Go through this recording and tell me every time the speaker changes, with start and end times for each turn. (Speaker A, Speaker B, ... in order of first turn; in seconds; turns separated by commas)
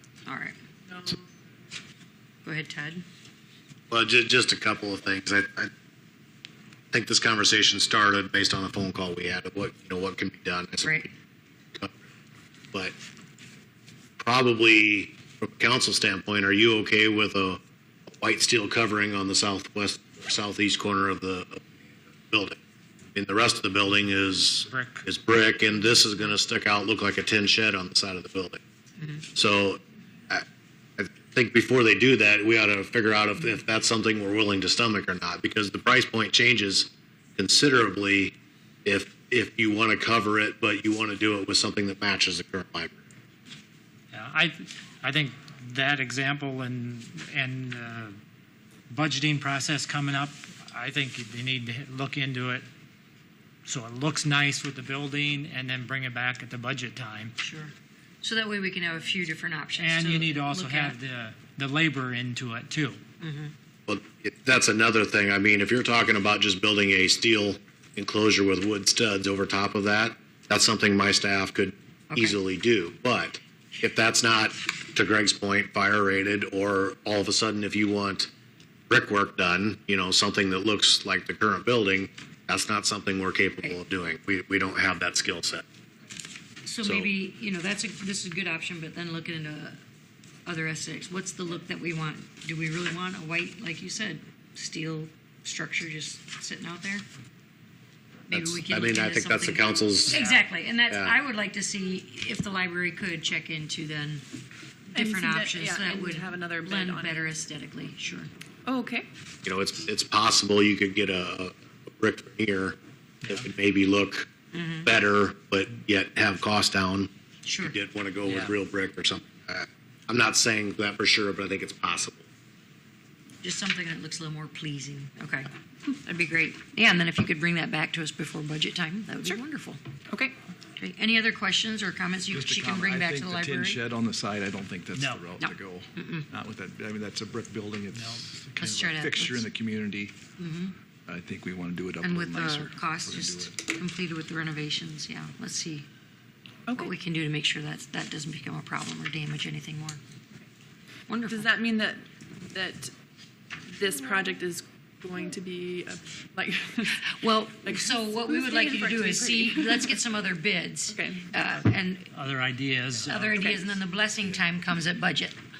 Speaker A: 0.2-0.6, Speaker B: 0.9-1.2, Speaker A: 2.4-3.0, Speaker C: 3.9-5.7, Speaker C: 6.9-11.1, Speaker A: 10.8-11.1, Speaker C: 14.2-17.6, Speaker C: 18.2-21.7, Speaker C: 22.3-22.6, Speaker C: 23.1-28.6, Speaker D: 24.6-25.1, Speaker C: 29.3-30.4, Speaker C: 31.0-42.9, Speaker D: 44.1-48.2, Speaker D: 48.9-52.6, Speaker D: 53.6-57.3, Speaker A: 57.4-61.0, Speaker D: 59.8-63.0, Speaker A: 63.2-63.5, Speaker C: 63.9-78.3, Speaker A: 72.1-72.4, Speaker C: 78.9-85.6, Speaker A: 86.6-89.8, Speaker C: 86.8-87.1, Speaker A: 90.5-97.0, Speaker A: 98.3-104.2, Speaker C: 98.3-100.2, Speaker D: 100.1-100.4, Speaker C: 100.9-101.2, Speaker A: 104.9-108.3, Speaker B: 104.9-107.4, Speaker B: 108.7-109.1, Speaker C: 109.4-114.3, Speaker D: 113.2-113.5, Speaker A: 114.5-114.9, Speaker C: 114.8-122.2, Speaker A: 117.4-117.8, Speaker D: 118.2-118.5, Speaker A: 123.4-125.5, Speaker A: 126.0-129.8, Speaker B: 130.1-130.3, Speaker A: 130.8-133.8, Speaker E: 132.3-140.1, Speaker D: 134.9-135.2, Speaker A: 135.4-136.3, Speaker D: 137.9-138.2, Speaker A: 138.6-139.5, Speaker A: 140.4-140.7, Speaker E: 141.1-143.5, Speaker A: 142.0-145.9, Speaker B: 146.7-146.9, Speaker A: 146.7-150.0, Speaker A: 151.1-151.5, Speaker B: 151.3-152.9, Speaker B: 153.7-157.0, Speaker A: 157.0-162.1, Speaker B: 157.6-160.0, Speaker B: 160.9-161.3, Speaker D: 162.1-163.4, Speaker A: 163.1-165.3, Speaker B: 163.3-163.6